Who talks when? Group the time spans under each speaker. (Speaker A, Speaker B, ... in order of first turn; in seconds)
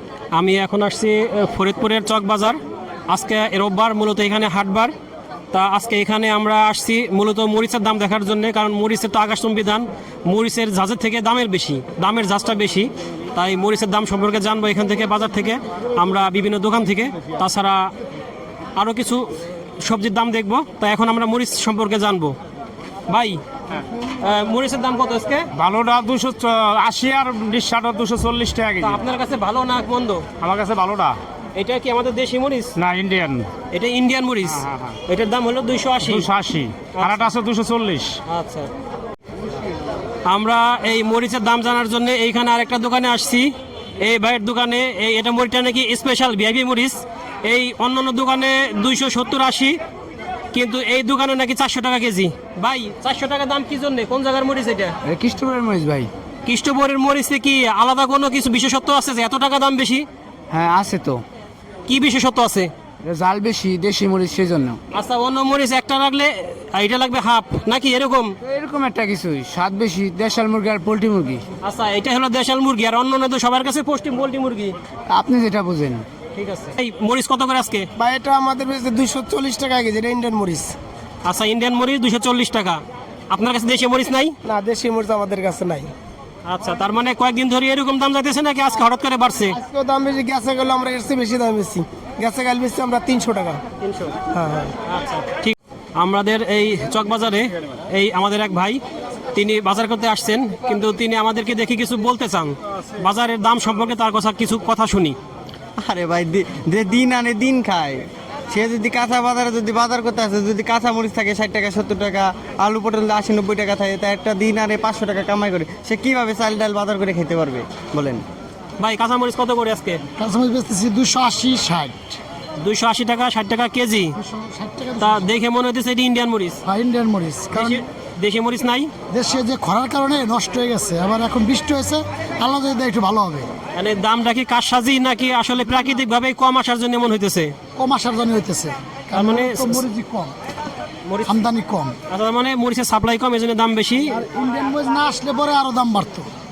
Speaker A: 0.3-4.9, 5.5-17.9, 18.8-22.4, 23.1-23.4, 24.2-25.5, 28.8-30.3, 31.5-32.7, 33.7-36.3, 36.9-37.2, 38.2-38.7, 40.2-49.8, 50.5-55.0, 56.4-60.0, 61.9-62.7, 64.9-68.3, 71.6-74.7, 76.3-77.9, 81.2-84.3, 86.5-89.6, 93.8-94.2, 94.8-98.8, 99.3-105.2, 118.8-120.0, 122.6-124.1, 125.0-126.6, 127.5-128.9, 133.7-137.5, 139.1-139.8, 141.0-141.5, 142.1-144.2
Speaker B: 25.5-29.0, 30.4-31.2, 32.8-33.5, 34.6-35.0, 36.0-38.2
Speaker C: 55.0-56.1, 60.5-61.2, 63.0-64.8, 68.4-71.4, 75.1-76.0
Speaker D: 78.0-80.8, 84.4-85.9, 89.5-93.6, 94.3-94.7
Speaker E: 105.8-118.2
Speaker F: 120.1-122.2, 124.2-125.2, 126.7-127.8, 129.1-133.5, 137.8-140.3, 141.2-142.0, 144.2-146.3